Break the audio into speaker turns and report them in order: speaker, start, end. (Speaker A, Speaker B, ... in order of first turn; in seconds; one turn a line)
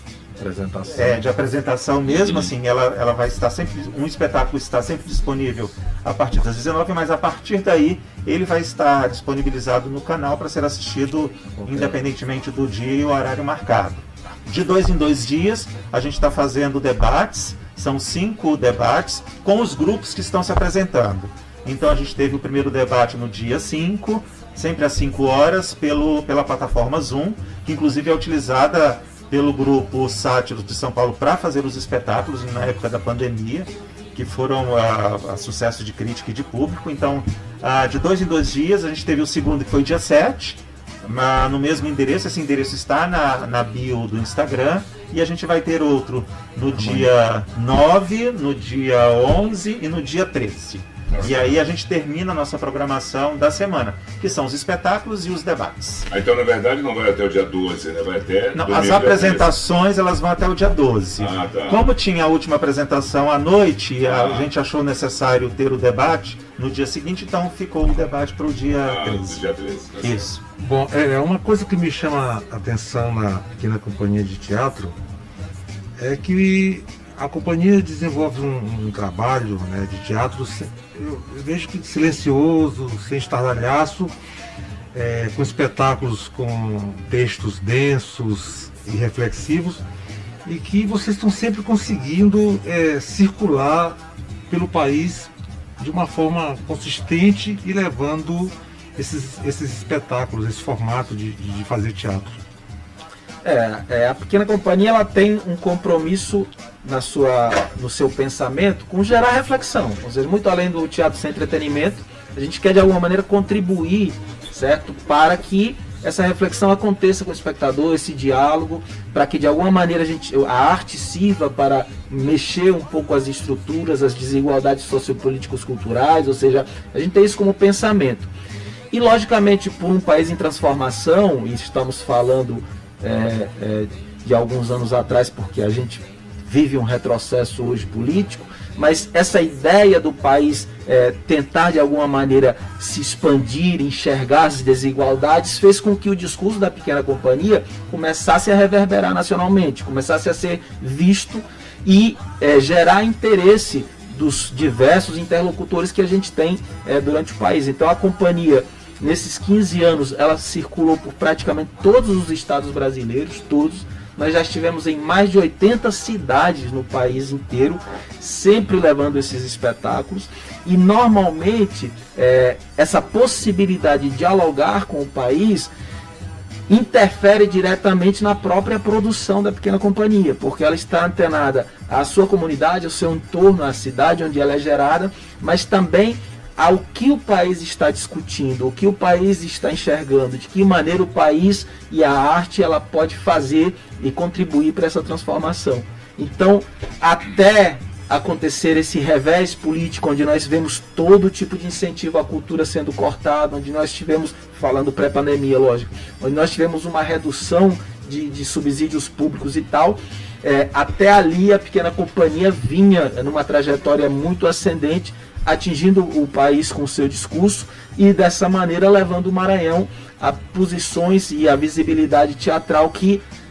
Speaker A: 0.4-1.2
Speaker B: 0.9-56.1
Speaker C: 2.1-2.5
Speaker A: 11.6-12.0
Speaker C: 51.1-51.5
Speaker C: 56.1-59.5
Speaker B: 58.5-69.4
Speaker C: 61.2-61.8
Speaker C: 64.0-64.5
Speaker C: 68.8-70.2
Speaker B: 70.0-70.4
Speaker D: 70.6-75.0
Speaker D: 76.0-84.1
Speaker D: 84.9-89.8
Speaker D: 90.5-94.0
Speaker D: 94.5-102.4
Speaker A: 103.4-128.3
Speaker A: 128.9-175.7
Speaker A: 176.7-223.2